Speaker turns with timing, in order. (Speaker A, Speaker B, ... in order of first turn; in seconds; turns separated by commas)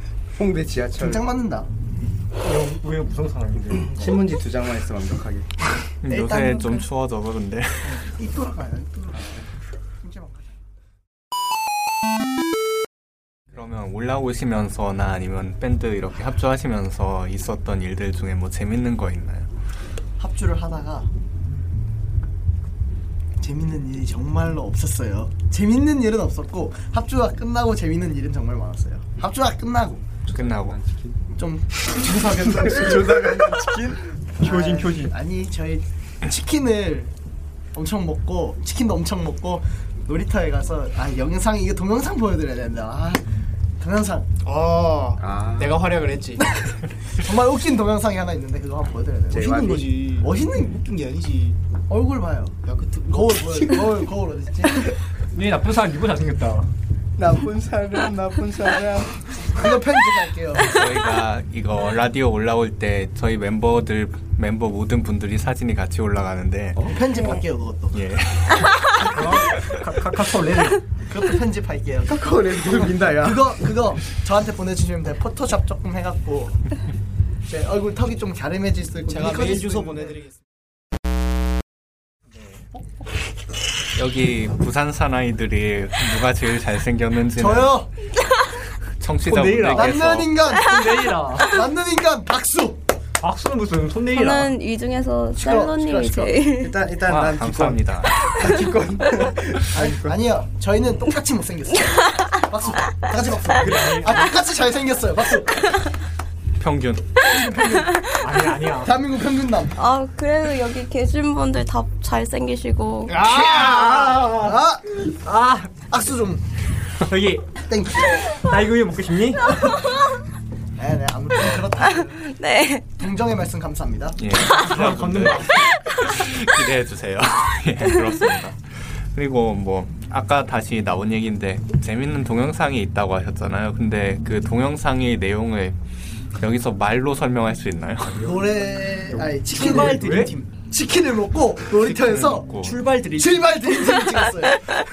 Speaker A: 0.3-1.2, Speaker B: 1.0-1.7, Speaker C: 2.4-4.0, Speaker A: 3.8-5.5, Speaker D: 6.0-8.1, Speaker B: 6.1-6.8, Speaker B: 7.8-9.4, Speaker B: 10.0-10.6, Speaker D: 13.5-19.5, Speaker B: 20.2-21.1, Speaker B: 23.4-30.0, Speaker A: 30.2-31.2, Speaker D: 30.3-30.8, Speaker B: 31.4-33.3, Speaker A: 32.2-34.1, Speaker C: 34.4-35.1, Speaker B: 34.4-37.1, Speaker B: 37.7-43.2, Speaker B: 43.8-44.3, Speaker E: 44.4-46.5, Speaker A: 45.2-45.9, Speaker B: 47.2-50.8, Speaker A: 49.3-49.8, Speaker E: 49.4-51.6, Speaker B: 51.9-52.6, Speaker E: 52.6-53.9, Speaker B: 53.1-54.9, Speaker C: 55.3-56.7, Speaker A: 57.2-59.2, Speaker B: 59.5-60.8, Speaker D: 60.6-66.8, Speaker A: 66.8-67.4, Speaker B: 66.9-68.0, Speaker D: 67.9-69.8, Speaker C: 69.0-70.8, Speaker B: 71.1-76.6, Speaker A: 72.0-73.5, Speaker B: 77.5-80.1, Speaker E: 79.1-80.4, Speaker D: 83.9-87.8, Speaker B: 87.3-87.9, Speaker D: 89.0-90.4, Speaker C: 89.2-91.6, Speaker B: 89.7-92.8, Speaker C: 93.2-94.5, Speaker F: 94.1-96.8, Speaker B: 95.3-96.3, Speaker A: 96.6-100.2, Speaker D: 97.0-98.3, Speaker B: 99.7-105.8, Speaker C: 103.5-104.3, Speaker D: 106.6-107.1, Speaker B: 107.2-108.0, Speaker C: 108.2-108.9, Speaker B: 108.8-109.8, Speaker F: 109.8-113.2, Speaker E: 113.1-114.5, Speaker B: 113.2-115.0, Speaker C: 115.1-115.8, Speaker B: 115.9-116.4, Speaker C: 117.0-117.5, Speaker B: 117.7-118.2, Speaker C: 118.2-119.6, Speaker B: 120.8-122.2, Speaker F: 122.2-122.9, Speaker B: 123.0-124.2, Speaker D: 124.2-135.8, Speaker C: 124.5-125.5, Speaker F: 125.5-126.4, Speaker D: 136.3-138.3, Speaker B: 138.2-142.5, Speaker E: 139.5-140.4, Speaker C: 139.5-140.3, Speaker D: 141.8-142.9, Speaker E: 142.6-143.6, Speaker B: 143.1-144.7